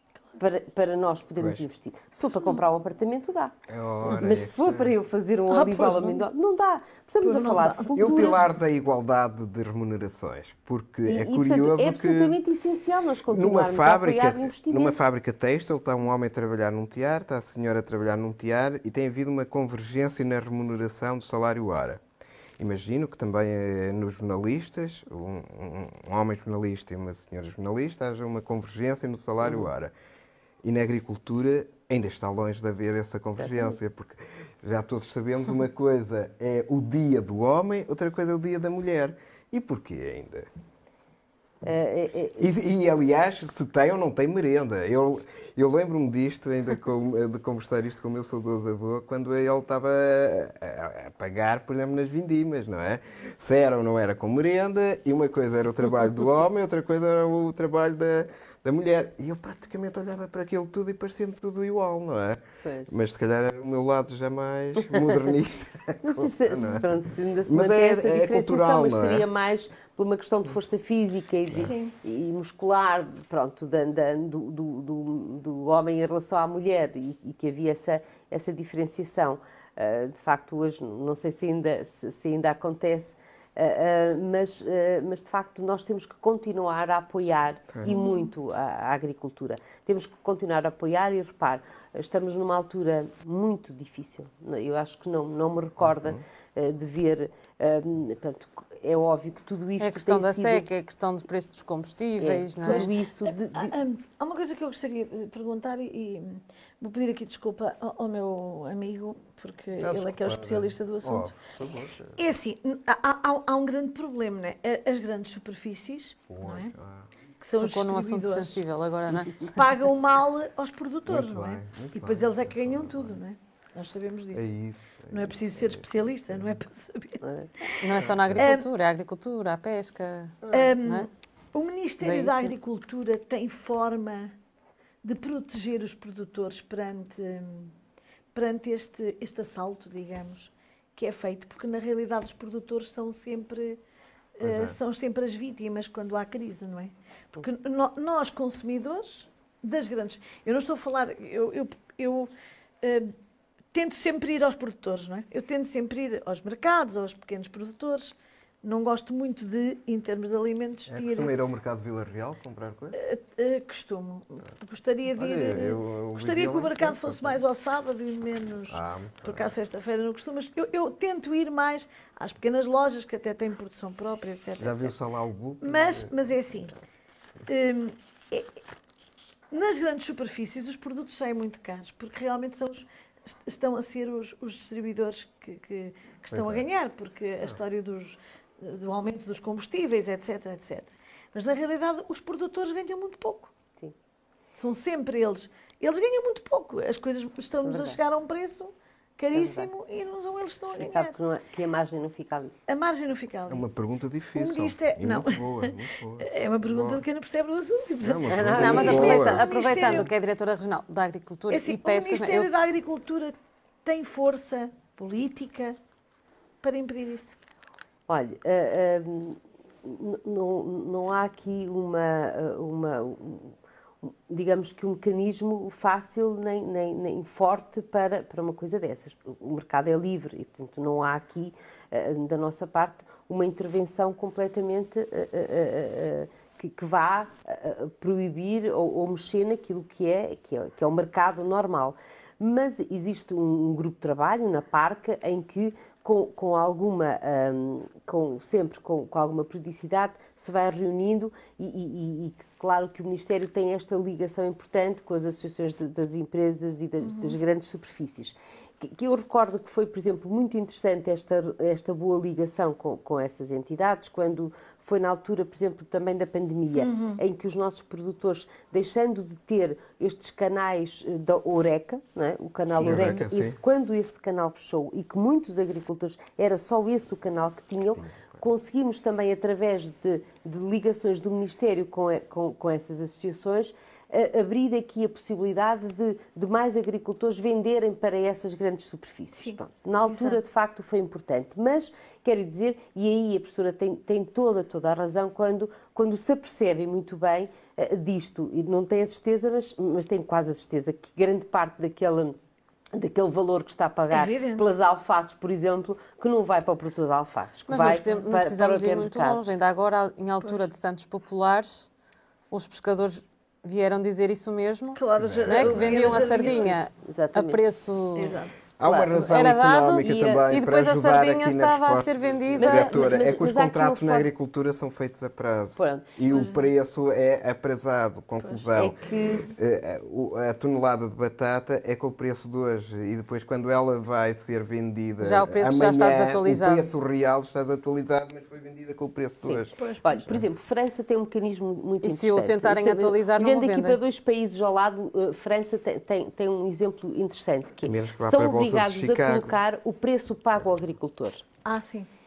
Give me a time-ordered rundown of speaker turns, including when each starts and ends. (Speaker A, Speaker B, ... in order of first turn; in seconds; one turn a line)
Speaker A: 0.4-8.5
Speaker B: 3.7-4.9
Speaker C: 5.5-6.3
Speaker C: 7.2-8.5
Speaker B: 7.9-12.4
Speaker A: 11.0-14.9
Speaker B: 13.3-22.0
Speaker B: 22.6-29.9
Speaker B: 30.6-40.5
Speaker A: 41.6-42.5
Speaker B: 42.4-66.9
Speaker A: 62.6-62.9
Speaker A: 66.0-100.7
Speaker B: 67.5-69.2
Speaker C: 71.5-71.9
Speaker C: 87.8-88.3
Speaker B: 95.8-96.2
Speaker D: 99.8-102.9
Speaker A: 102.2-103.8
Speaker C: 102.6-111.3
Speaker B: 109.8-112.2
Speaker C: 112.2-116.7
Speaker B: 116.3-117.1
Speaker C: 117.4-118.6
Speaker D: 117.6-119.6
Speaker C: 119.5-124.5
Speaker B: 121.1-123.2
Speaker B: 124.3-126.5
Speaker C: 125.1-127.8
Speaker D: 127.8-131.1
Speaker B: 127.9-128.5
Speaker C: 128.3-128.6
Speaker C: 130.5-134.3
Speaker D: 132.0-132.5
Speaker C: 135.0-137.7
Speaker C: 138.3-143.8
Speaker C: 144.4-152.3
Speaker B: 144.4-144.8
Speaker C: 152.8-153.1
Speaker C: 153.7-161.3
Speaker B: 160.9-163.0
Speaker C: 162.9-174.9
Speaker B: 165.1-167.4
Speaker B: 168.7-169.5
Speaker B: 174.6-176.1
Speaker C: 175.6-176.8
Speaker C: 177.5-178.5
Speaker C: 179.5-193.5
Speaker B: 186.3-186.6
Speaker C: 194.6-201.1
Speaker A: 197.6-198.0
Speaker A: 199.3-199.7
Speaker A: 200.8-202.5
Speaker C: 202.7-203.6
Speaker B: 203.5-207.0
Speaker C: 204.3-210.1
Speaker B: 208.0-209.4
Speaker A: 208.3-209.2
Speaker D: 208.5-212.5
Speaker C: 211.5-213.3
Speaker C: 213.8-215.8
Speaker C: 216.6-217.3
Speaker A: 218.1-302.4
Speaker C: 257.0-257.4
Speaker C: 266.8-267.2
Speaker B: 272.7-273.6
Speaker B: 278.0-278.4
Speaker C: 289.4-290.4
Speaker A: 302.9-309.4
Speaker C: 304.1-304.7
Speaker D: 307.7-311.9
Speaker D: 312.5-318.4
Speaker C: 314.9-316.8
Speaker B: 315.2-316.3
Speaker A: 316.9-317.6
Speaker C: 318.1-318.5
Speaker B: 318.8-339.7
Speaker A: 318.8-319.2
Speaker D: 319.0-323.1
Speaker A: 322.6-324.3
Speaker A: 325.8-326.1
Speaker C: 326.3-326.7
Speaker C: 328.4-328.7
Speaker A: 328.7-329.5
Speaker D: 335.2-337.0
Speaker A: 339.4-351.4
Speaker C: 339.8-340.3
Speaker D: 342.0-344.0
Speaker B: 347.8-349.6
Speaker C: 351.6-352.1